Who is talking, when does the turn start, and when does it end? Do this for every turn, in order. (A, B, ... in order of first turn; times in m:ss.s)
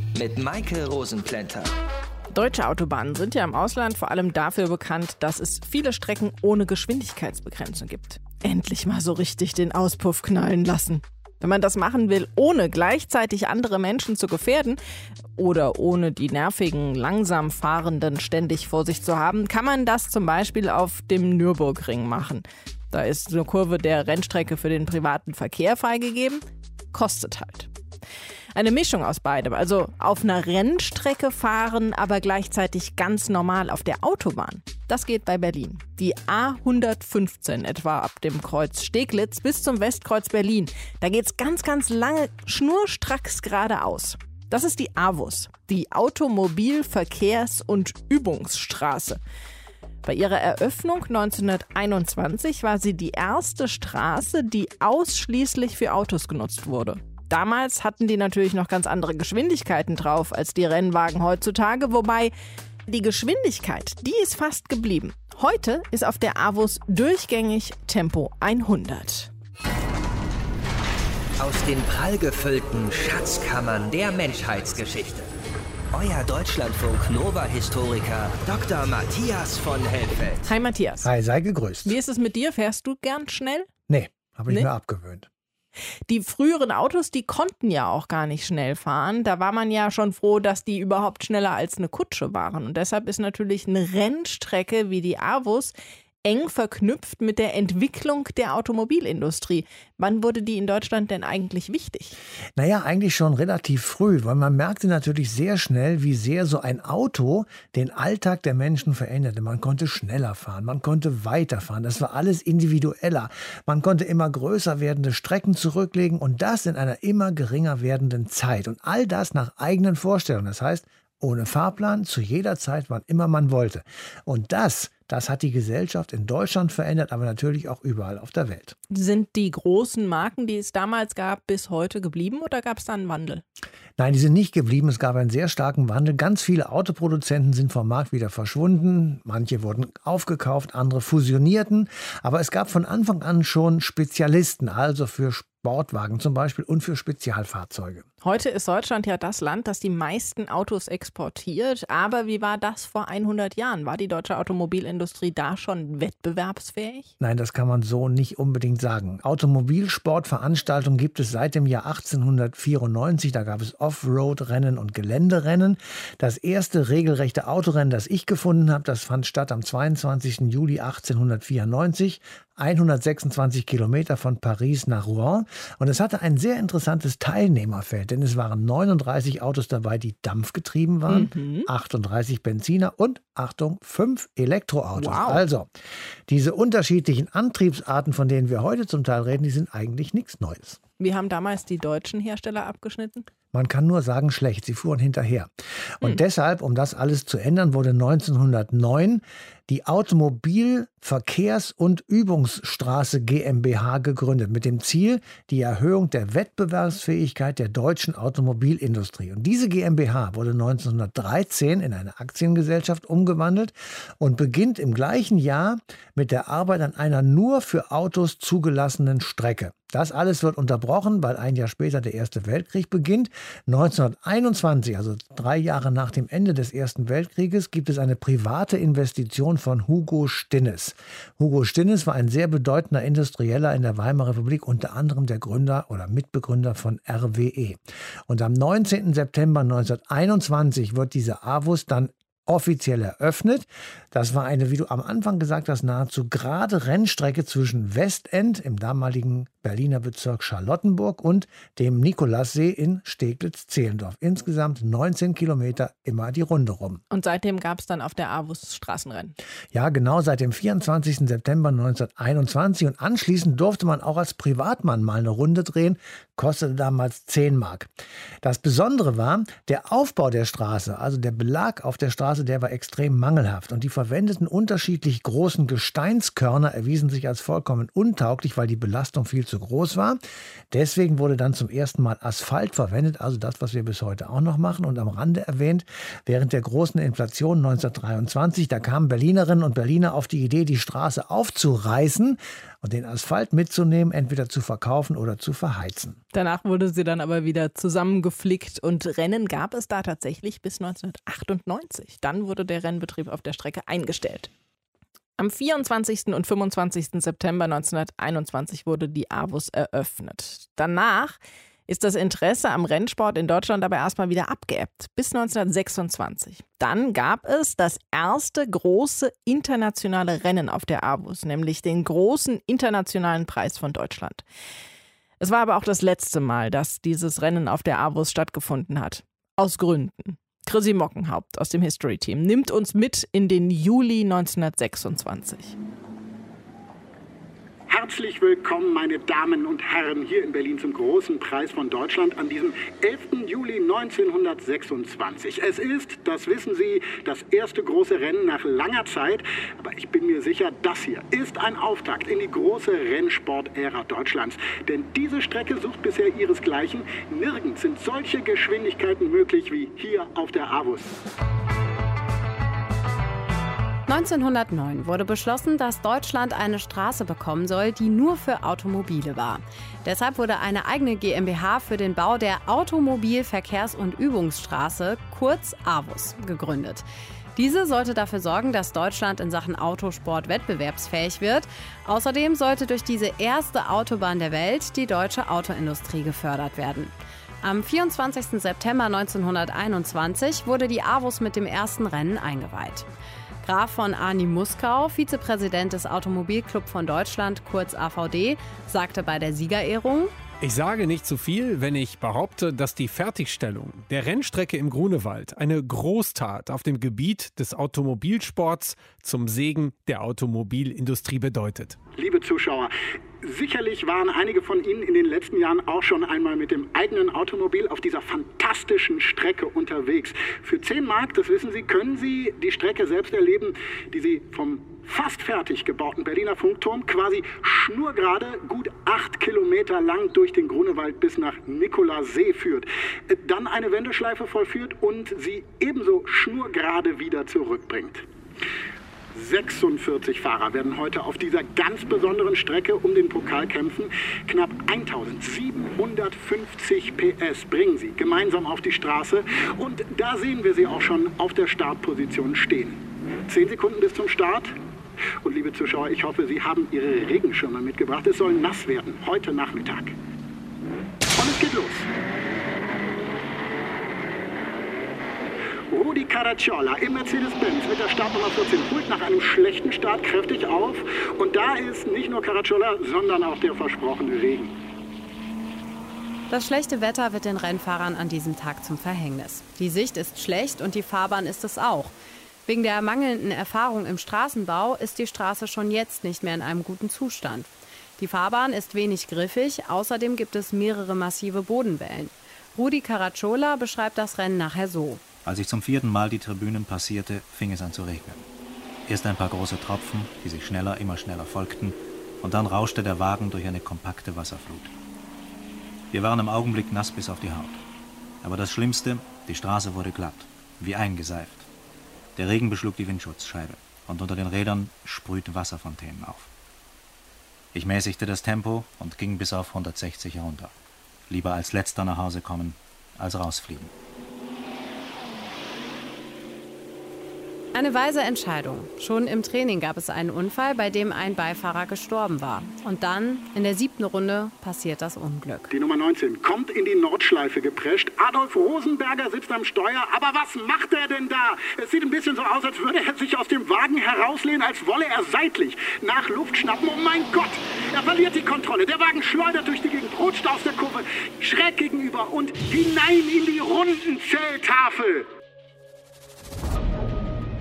0:00.1-0:01.7 A
0:02.3-0:14.8 B
0:15.4-0:27.7 B
0:28.5-0:49.2 B
0:50.0-1:02.3 B
1:02.9-1:09.3 B
1:11.4-1:15.3 A
1:15.9-1:20.5 A
1:20.4-1:21.1 B
1:21.0-1:22.0 C
1:21.8-1:23.7 B
1:23.9-1:25.3 C
1:26.1-1:42.2 B
1:42.6-2:08.8 C
2:08.9-2:13.4 B
2:14.0-2:28.1 C
2:28.2-2:37.1 B
2:37.2-3:05.7 C
3:01.1-3:01.7 B
3:05.0-3:05.4 B
3:06.3-3:10.8 C
3:11.0-3:13.3 B
3:13.5-4:17.0 C
4:17.1-4:19.4 B
4:19.7-4:27.9 C
4:28.4-4:40.2 C
4:40.7-4:56.2 C
4:56.3-5:04.5 B
5:05.4-5:24.4 B
5:25.4-5:35.8 B
5:37.9-6:01.1 D
6:04.1-6:17.0 E
6:17.6-6:33.1 E
6:33.6-6:40.4 E
6:40.6-6:52.0 F
6:52.2-6:52.9 D
6:53.4-7:18.2 D
7:19.3-7:34.8 D
7:35.4-7:40.1 D
7:41.4-7:42.1 D
7:45.9-7:54.7 D
7:56.5-8:02.1 E
8:02.7-8:15.2 E
8:15.4-8:18.5 G
8:19.1-8:24.9 G
8:26.1-8:27.8 G
8:28.4-8:31.7 G
8:32.4-8:36.5 G
8:37.7-8:40.8 G
8:41.3-8:43.9 G
8:47.7-8:55.7 E
8:55.7-9:15.3 D